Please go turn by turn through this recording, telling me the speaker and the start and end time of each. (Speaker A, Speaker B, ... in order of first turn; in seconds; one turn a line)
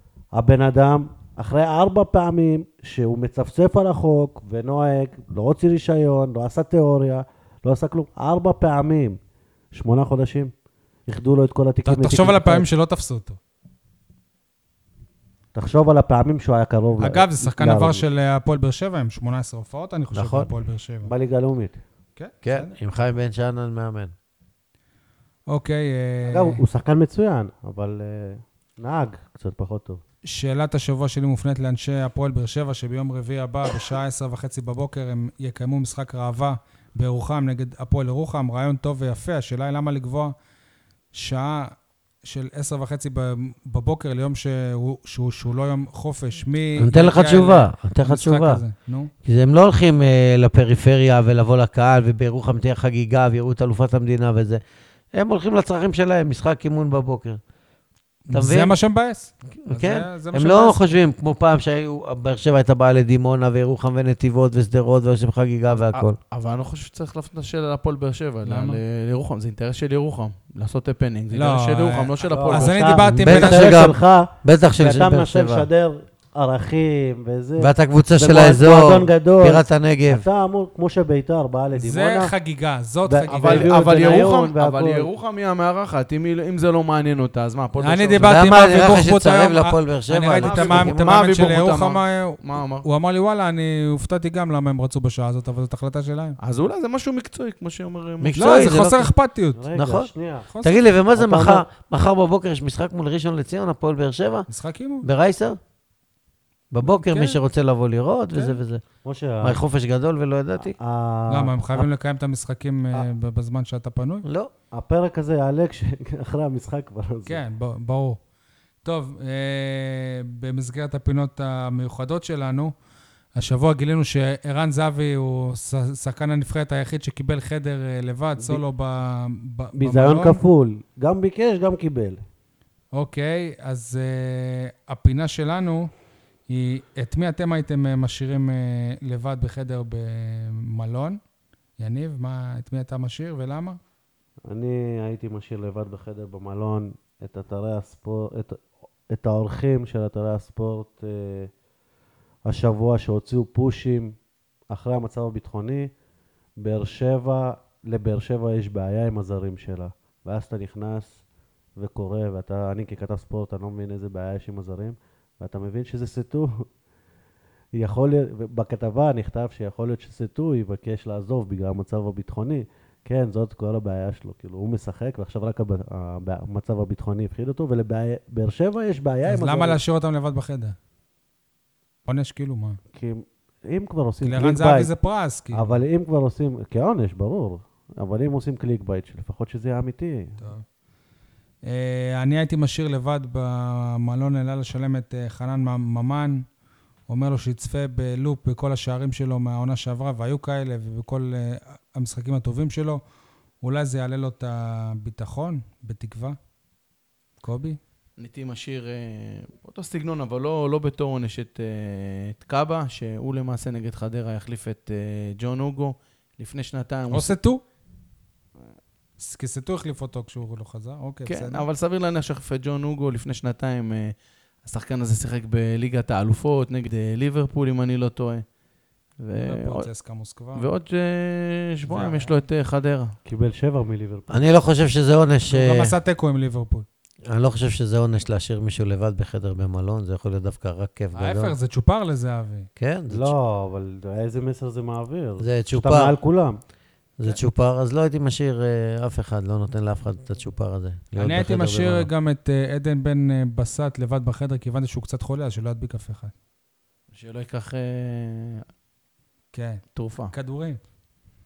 Speaker A: 0.3-9.2
Speaker A: 9.7-10.5
Speaker A: 11.1-12.7
Speaker B: 11.8-13.4
Speaker A: 15.5-18.1
Speaker B: 17.0-21.1
Speaker A: 20.1-20.5
Speaker A: 21.0-21.8
Speaker B: 22.1-22.7
Speaker C: 22.4-24.1
Speaker B: 25.5-26.6
Speaker A: 26.3-30.0
Speaker B: 30.2-40.3
Speaker B: 41.1-49.1
Speaker C: 46.8-48.6
Speaker C: 49.2-54.6
Speaker C: 55.1-57.4
Speaker B: 58.3-60.9
Speaker C: 58.3-58.8
Speaker C: 59.7-66.2
Speaker D: 65.7-73.0
Speaker B: 68.5-68.8
Speaker B: 71.3-73.9
Speaker A: 72.2-82.3
Speaker C: 73.1-75.7
Speaker C: 77.6-80.2
Speaker B: 81.8-84.2
Speaker A: 83.0-85.1
Speaker D: 83.3-88.5
Speaker B: 87.8-96.4
Speaker C: 88.2-91.2
Speaker D: 90.4-92.8
Speaker D: 96.4-98.8
Speaker C: 98.2-99.1
Speaker B: 98.3-99.6
Speaker A: 99.5-100.5
Speaker C: 99.7-100.1
Speaker B: 100.5-100.8
Speaker C: 100.6-104.5
Speaker A: 101.1-101.6
Speaker B: 104.5-105.0
Speaker C: 105.0-105.6
Speaker C: 106.7-108.8
Speaker B: 106.8-107.4
Speaker B: 108.3-108.6
Speaker A: 109.0-109.6
Speaker C: 109.4-110.8
Speaker A: 110.6-111.8
Speaker B: 111.3-114.2
Speaker C: 114.2-114.5
Speaker A: 114.7-117.4
Speaker B: 117.3-118.2
Speaker B: 118.8-122.7
Speaker B: 123.3-130.4
Speaker A: 129.8-132.2
Speaker B: 132.9-135.9
Speaker B: 136.5-141.2
Speaker B: 141.8-143.8
Speaker A: 144.5-151.5
Speaker A: 152.4-154.1
Speaker A: 154.7-155.9
Speaker A: 156.6-161.2
Speaker A: 161.8-166.7
Speaker A: 167.7-179.8
Speaker B: 179.2-180.8
Speaker B: 182.1-182.8
Speaker A: 182.9-184.9
Speaker B: 184.2-185.8
Speaker A: 185.5-190.4
Speaker B: 191.7-196.4
Speaker B: 197.1-203.0
Speaker B: 203.6-206.4
Speaker B: 207.4-207.8
Speaker D: 208.2-217.3
Speaker B: 217.1-217.6
Speaker B: 219.2-221.7
Speaker D: 221.3-228.4
Speaker D: 229.2-229.9
Speaker B: 229.3-230.7
Speaker D: 230.5-233.1
Speaker B: 231.9-232.3
Speaker A: 233.2-234.4
Speaker C: 234.3-235.9
Speaker B: 235.5-236.8
Speaker C: 237.3-241.5
Speaker B: 241.1-242.7
Speaker C: 242.8-243.3
Speaker A: 243.1-246.6
Speaker C: 245.4-246.1
Speaker C: 247.2-252.1
Speaker B: 251.2-256.3
Speaker D: 257.1-258.6
Speaker B: 259.5-260.8
Speaker D: 259.9-260.3